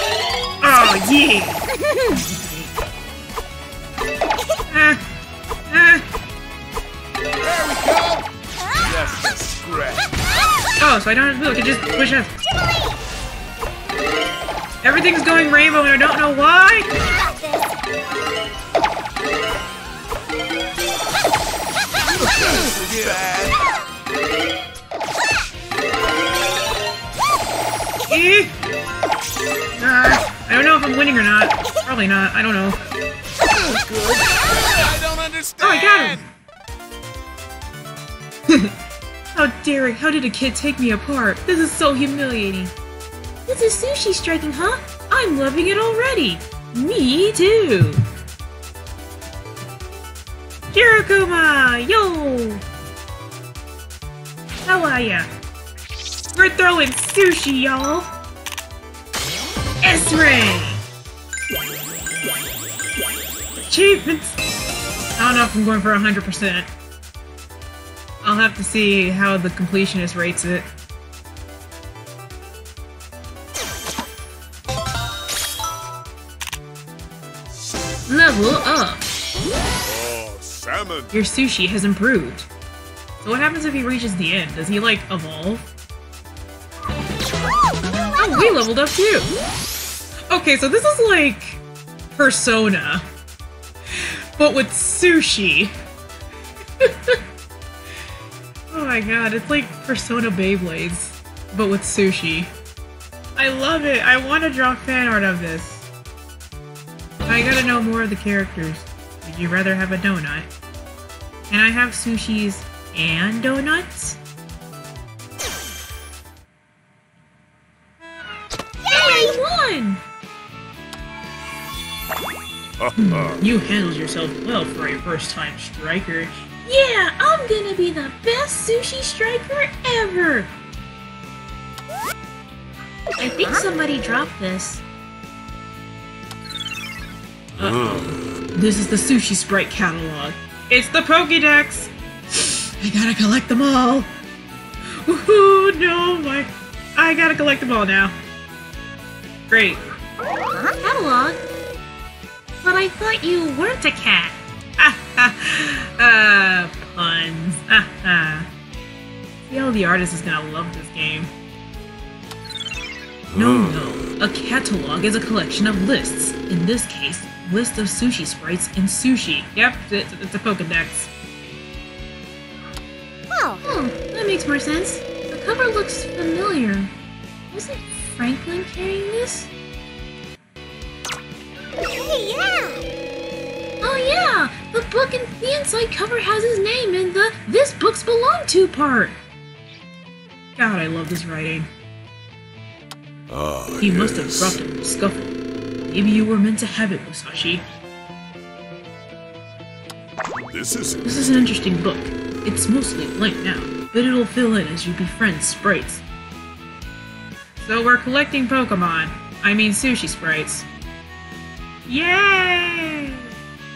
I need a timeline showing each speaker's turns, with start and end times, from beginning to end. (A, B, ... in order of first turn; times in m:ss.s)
0:00.6-0:02.7 A
0:01.9-0:02.2 B
0:04.7-0:05.0 A
0:05.7-0:06.0 A
0:07.4-0:08.2 C
0:08.6-0:09.1 B
0:08.8-0:10.1 C
0:10.8-0:12.3 A
0:14.8-0:16.9 A
0:17.1-0:17.8 B
0:22.3-0:23.5 C
0:22.5-0:23.5 D
0:28.1-0:28.5 A
0:29.8-0:32.8 A
0:33.5-0:36.2 C
0:35.6-0:36.2 A
0:39.4-0:42.7 A
0:43.5-0:48.0 A
0:50.7-0:52.6 A
0:54.7-0:55.3 A
0:56.4-0:58.1 A
0:59.8-1:00.8 A
1:03.7-1:04.4 A
1:05.2-1:06.7 A
1:08.2-1:10.7 A
1:18.1-1:19.1 A
1:19.8-1:21.2 D
1:21.1-1:22.5 A
1:23.2-1:25.6 A
1:28.2-1:29.3 A
1:30.3-1:31.6 A
1:32.1-1:33.0 A
1:33.9-1:35.7 A
1:36.8-1:37.2 A
1:38.7-1:42.5 A
1:43.4-1:45.9 A
1:47.3-1:50.5 A
1:51.5-1:54.2 A
1:58.8-1:59.4 B
1:58.9-2:00.0 A
2:02.8-2:03.5 D
2:03.0-2:10.5 A
2:13.2-2:14.8 A
2:17.6-2:18.2 D
2:17.6-2:24.1 A
2:24.9-2:28.1 A
2:29.5-2:29.8 A
2:30.5-2:30.8 B
2:30.8-2:31.4 A
2:32.6-2:38.5 A
2:39.5-2:41.3 A
2:43.3-2:44.1 D
2:43.3-2:51.1 A
2:53.3-2:53.6 B
2:53.6-2:56.9 A
2:57.5-2:59.5 A
3:01.8-3:02.8 B
3:03.8-3:09.2 A
3:10.6-3:11.7 A
3:13.3-3:14.6 D
3:13.8-3:15.4 A
3:15.9-3:17.6 A
3:20.5-3:21.5 D
3:21.0-3:26.0 A
3:27.6-3:30.6 A
3:31.9-3:33.3 A